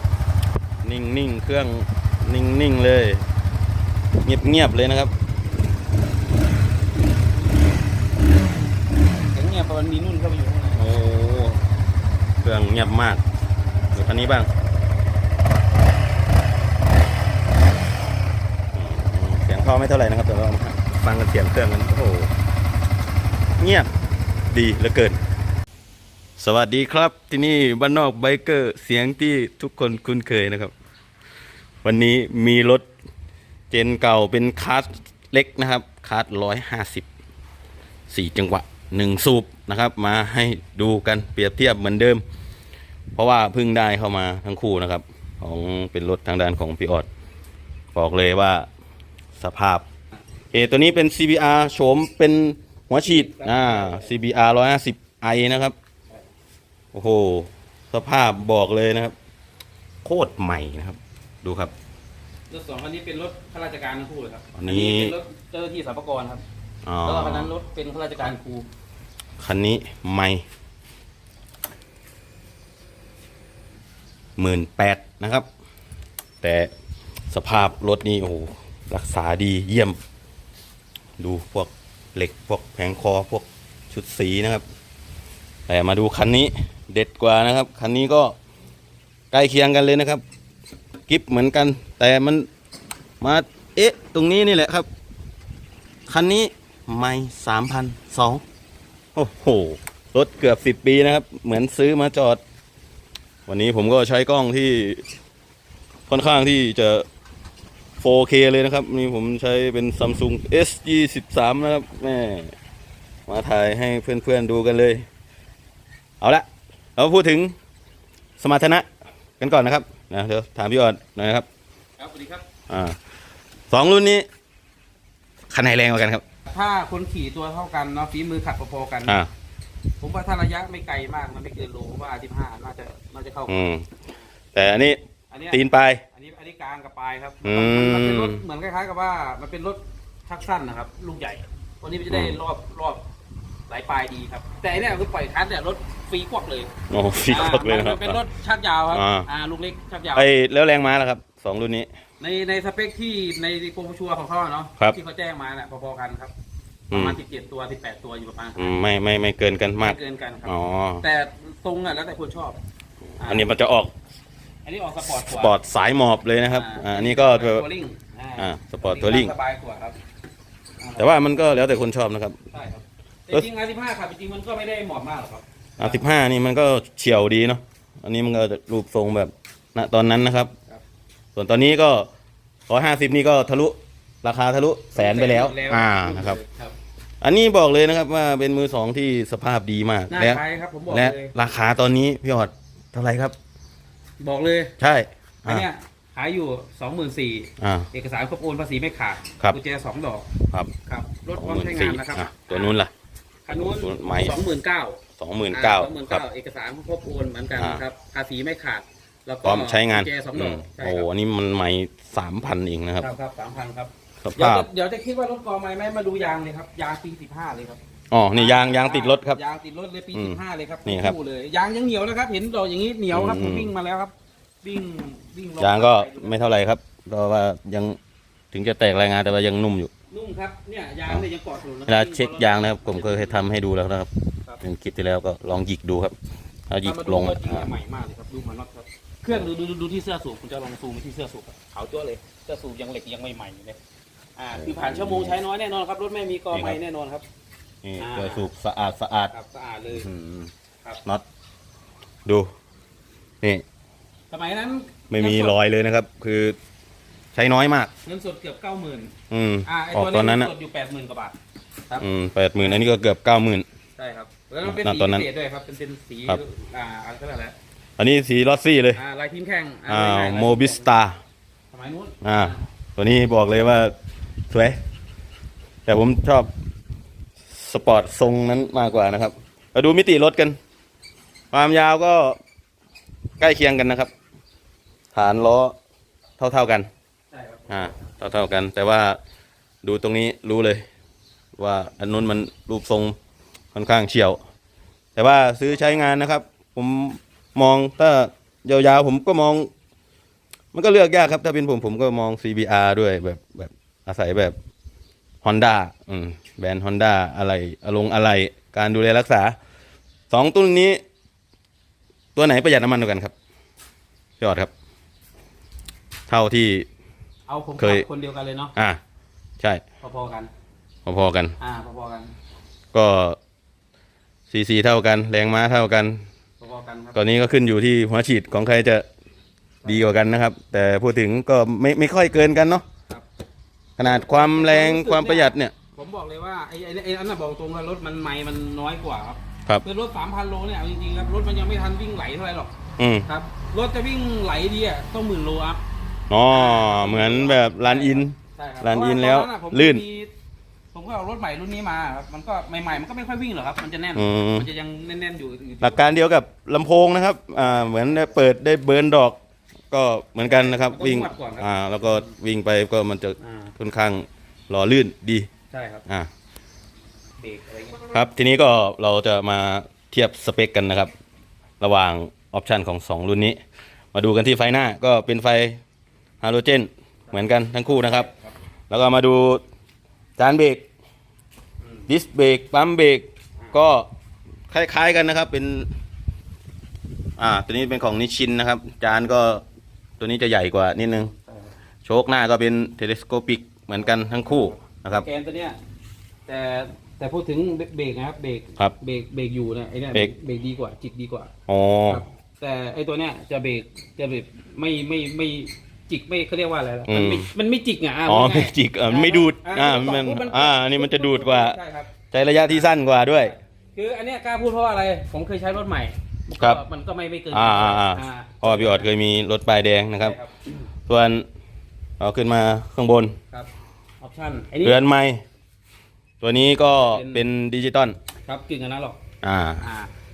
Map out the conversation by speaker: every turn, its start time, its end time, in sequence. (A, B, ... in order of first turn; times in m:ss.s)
0:00.8-0:03.2 A
0:04.2-0:05.1 A
0:09.3-0:10.8 B
0:10.7-0:11.6 A
0:12.4-0:13.2 A
0:13.9-0:14.5 A
0:18.7-0:22.3 A
0:23.6-0:23.9 A
0:24.5-0:25.2 A
0:26.4-0:30.7 A
0:31.8-0:32.9 A
0:33.7-0:37.1 A
0:38.1-0:42.2 A
0:43.2-0:47.1 A
0:47.9-0:48.7 A
0:49.4-0:49.8 A
0:50.5-0:55.8 A
0:52.9-0:54.1 B
0:56.9-0:59.2 A
1:00.0-1:01.7 A
1:02.5-1:06.4 B
1:04.5-1:05.2 A
1:06.8-1:07.5 A
1:07.0-1:08.7 B
1:09.4-1:10.4 A
1:14.4-1:15.5 A
1:16.4-1:16.7 A
1:17.3-1:20.0 A
1:21.2-1:24.6 A
1:25.7-1:28.4 A
1:29.3-1:30.2 A
1:31.1-1:32.5 A
1:33.2-1:34.9 A
1:36.1-1:38.4 A
1:39.2-1:42.4 A
1:43.5-1:45.0 A
1:46.1-1:47.1 A
1:48.0-1:52.5 A
1:53.3-1:55.1 A
1:56.2-1:56.5 A
1:57.0-1:57.6 A
1:58.4-1:58.9 A
1:59.4-2:01.5 A
2:02.0-2:02.4 B
2:02.7-2:03.0 A
2:03.7-2:04.3 A
2:05.5-2:06.2 A
2:06.5-2:09.2 B
2:09.0-2:09.3 A
2:10.0-2:13.7 B
2:13.5-2:13.9 A
2:14.6-2:15.0 A
2:15.3-2:23.0 B
2:15.5-2:16.0 A
2:17.4-2:18.4 A
2:22.1-2:22.4 A
2:23.7-2:26.7 B
2:26.9-2:28.2 A
2:27.3-2:30.3 B
2:28.9-2:29.3 A
2:30.1-2:31.9 A
2:32.2-2:36.3 B
2:36.9-2:38.8 B
2:36.9-2:37.2 A
2:38.6-2:41.0 A
2:39.8-2:42.6 B
2:43.2-2:43.5 B
2:43.2-2:43.9 A
2:44.6-2:45.6 B
2:45.0-2:47.6 A
2:46.5-2:50.0 B
2:48.4-2:49.3 A
2:50.8-2:51.3 B
2:51.0-2:52.4 A
2:52.5-2:56.0 B
2:55.8-3:00.5 A
3:01.4-3:02.1 A
3:02.7-3:06.4 A
3:04.9-3:06.7 B
3:07.2-3:13.4 A
3:10.1-3:11.3 B
3:14.2-3:14.8 B
3:14.8-3:15.7 A
3:15.5-3:20.3 B
3:17.6-3:17.9 A
3:20.9-3:22.8 B
3:21.4-3:22.9 A
3:23.5-3:31.1 B
3:23.5-3:24.4 A
3:25.2-3:26.2 A
3:27.6-3:27.8 A
3:29.4-3:33.1 A
3:33.0-3:37.8 B
3:34.2-3:34.7 A
3:38.1-3:39.4 A
3:38.4-3:46.4 B
3:40.1-3:41.2 A
3:43.1-3:43.7 A
3:45.6-3:48.0 A
3:48.5-3:49.9 A
3:50.1-3:53.4 B
3:51.9-3:54.1 A
3:54.6-3:56.2 A
3:56.7-3:57.7 A
3:56.8-4:03.8 B
4:04.4-4:07.2 B
4:04.6-4:05.4 A
4:06.5-4:06.8 A
4:07.8-4:09.3 A
4:08.0-4:08.5 B
4:09.3-4:10.1 B
4:09.9-4:10.5 A
4:14.3-4:15.6 B
4:15.1-4:16.6 A
4:17.3-4:17.9 A
4:18.0-4:19.1 B
4:19.3-4:20.5 A
4:19.7-4:21.4 B
4:22.0-4:23.7 A
4:24.0-4:27.6 B
4:24.6-4:25.3 A
4:28.0-4:29.0 A
4:29.0-4:30.9 B
4:29.9-4:31.2 A
4:31.7-4:32.6 B
4:32.2-4:33.9 A
4:34.5-4:34.8 A
4:35.9-4:36.5 A
4:37.5-4:40.6 A
4:41.5-4:42.4 A
4:43.4-4:44.1 A
4:45.1-4:45.8 A
4:46.4-4:46.9 A
4:47.3-4:47.9 B
4:47.7-4:49.2 A
4:49.8-4:50.8 A
4:51.6-4:53.2 A
4:53.7-4:54.4 A
4:55.2-4:59.7 A
5:00.7-5:04.6 A
5:05.4-5:09.6 A
5:10.3-5:11.0 A
5:12.4-5:13.3 A
5:14.4-5:14.7 A
5:16.3-5:16.9 A
5:17.5-5:18.7 B
5:17.8-5:18.0 A
5:20.0-5:20.5 B
5:21.1-5:21.6 A
5:21.6-5:22.3 B
5:22.9-5:23.4 A
5:24.5-5:26.2 A
5:26.6-5:27.2 B
5:27.1-5:29.1 A
5:29.9-5:32.8 A
5:34.0-5:35.8 A
5:34.0-5:42.7 B
5:43.0-5:43.3 A
5:43.3-5:45.8 B
5:46.3-5:50.0 A
5:46.5-5:50.3 B
5:50.9-5:56.1 B
5:54.2-5:54.7 A
5:55.8-5:59.4 A
5:57.6-5:58.3 B
5:59.9-6:05.5 A
6:00.4-6:02.3 B
6:03.4-6:03.7 B
6:05.7-6:06.0 B
6:07.4-6:08.0 B
6:08.1-6:11.1 A
6:11.8-6:13.6 A
6:14.1-6:15.8 A
6:16.4-6:18.3 A
6:17.3-6:18.5 B
6:18.9-6:19.6 A
6:20.4-6:20.8 A
6:22.1-6:24.1 A
6:24.7-6:25.9 A
6:27.4-6:29.6 A
6:30.2-6:31.3 A
6:32.0-6:35.3 A
6:34.5-6:35.8 B
6:36.5-6:41.5 B
6:41.7-6:42.2 A
6:42.1-6:52.1 B
6:47.1-6:47.5 A
6:48.3-6:51.8 A
6:52.3-6:53.6 A
6:53.9-6:59.1 B
6:57.5-7:00.4 A
7:00.2-7:00.6 B
7:01.1-7:01.5 A
7:02.2-7:03.4 A
7:04.2-7:05.0 B
7:04.8-7:05.4 A
7:06.4-7:08.2 A
7:06.9-7:07.4 B
7:08.5-7:09.2 B
7:09.4-7:09.8 A
7:09.8-7:10.1 B